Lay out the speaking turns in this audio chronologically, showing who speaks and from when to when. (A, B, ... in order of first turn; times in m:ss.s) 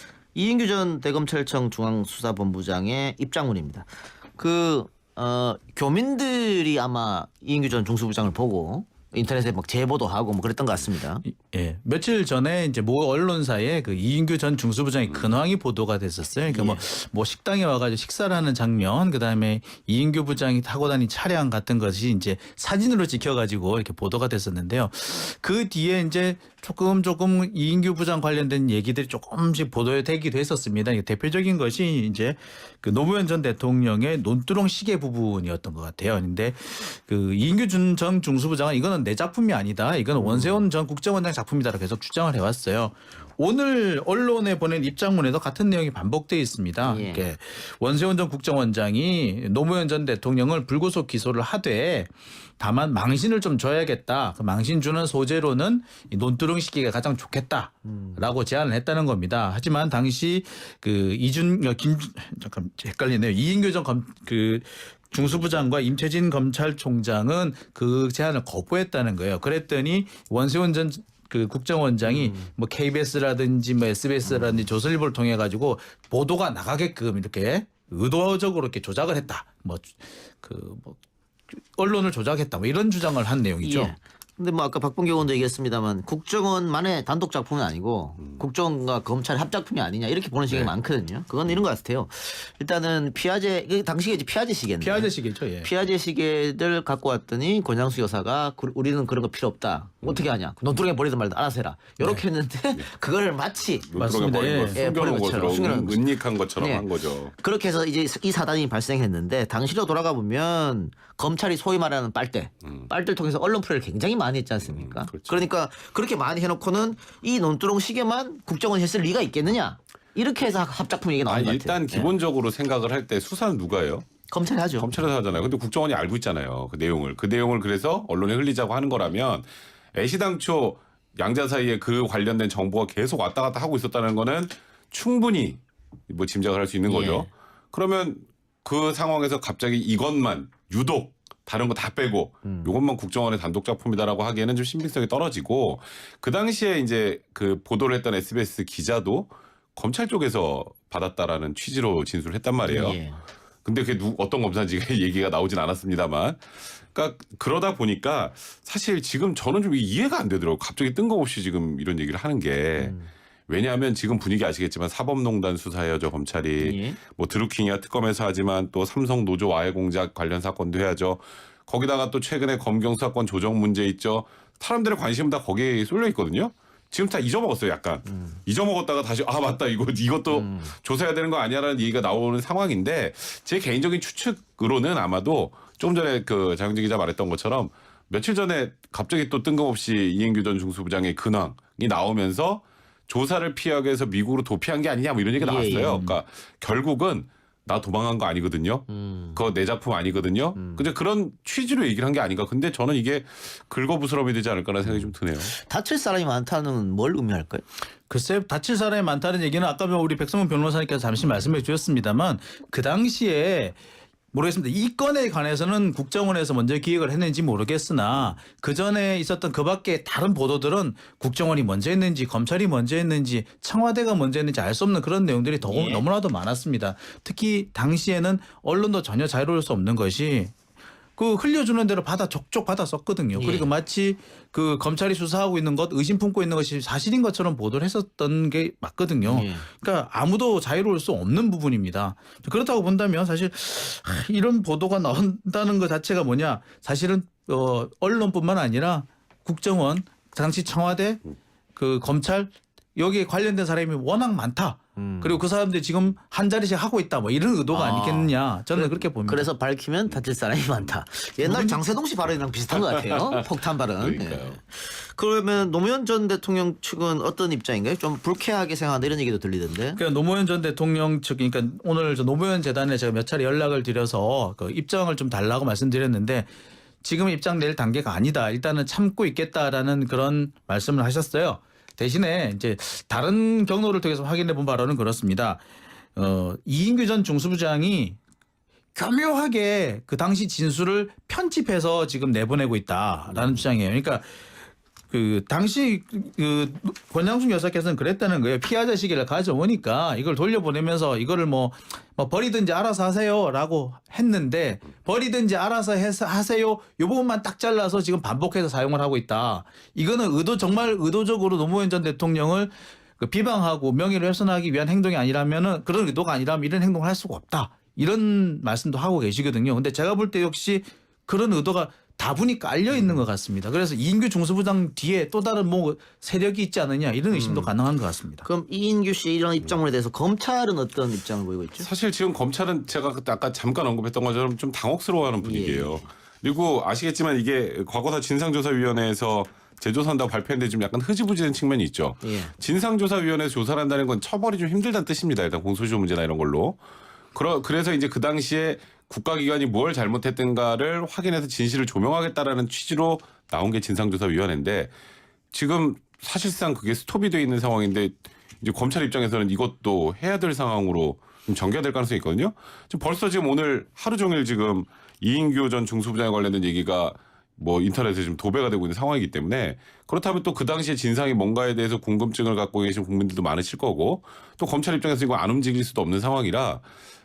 0:00.4-0:11.2 A
0:11.2-1:21.0 B
0:16.5-0:16.9 A
0:40.2-0:40.7 A
0:46.8-0:47.3 A
0:57.8-0:58.4 A
1:12.1-1:12.5 A
1:14.2-1:14.7 A
1:21.5-1:24.0 B
1:23.6-1:43.9 A
1:34.8-1:35.7 B
1:43.9-1:47.3 C
1:44.0-1:44.8 B
1:44.8-1:46.1 A
1:46.6-2:02.2 A
1:54.7-1:55.4 C
2:01.3-2:04.0 C
2:04.3-2:04.9 A
2:04.8-2:33.0 C
2:16.9-2:17.3 A
2:22.4-2:22.8 A
2:32.6-2:33.2 A
2:33.6-2:43.0 C
2:42.8-2:43.1 A
2:43.5-3:25.5 C
2:46.6-2:47.0 A
2:58.1-2:58.4 A
3:00.3-3:00.7 A
3:15.4-3:16.2 A
3:18.9-3:19.4 A
3:20.6-3:20.8 A
3:24.9-3:27.6 A
3:28.1-3:33.8 B
3:34.3-3:50.5 B
3:45.6-3:46.0 A
3:51.2-4:11.2 B
3:53.4-3:53.7 A
3:59.2-3:59.7 A
4:11.8-4:19.5 B
4:15.0-4:15.4 A
4:17.7-4:30.0 A
4:21.4-4:21.8 B
4:24.0-4:24.6 C
4:30.0-4:36.5 B
4:37.0-4:45.6 B
4:46.2-4:48.2 B
4:49.0-4:54.3 B
4:53.3-4:53.6 A
4:55.1-5:28.5 B
5:22.9-5:23.2 A
5:27.3-5:27.7 A
5:28.4-5:31.9 A
5:31.8-5:46.8 C
5:35.4-5:36.1 A
5:42.2-5:42.5 A
5:47.3-5:54.9 C
5:55.5-6:16.8 C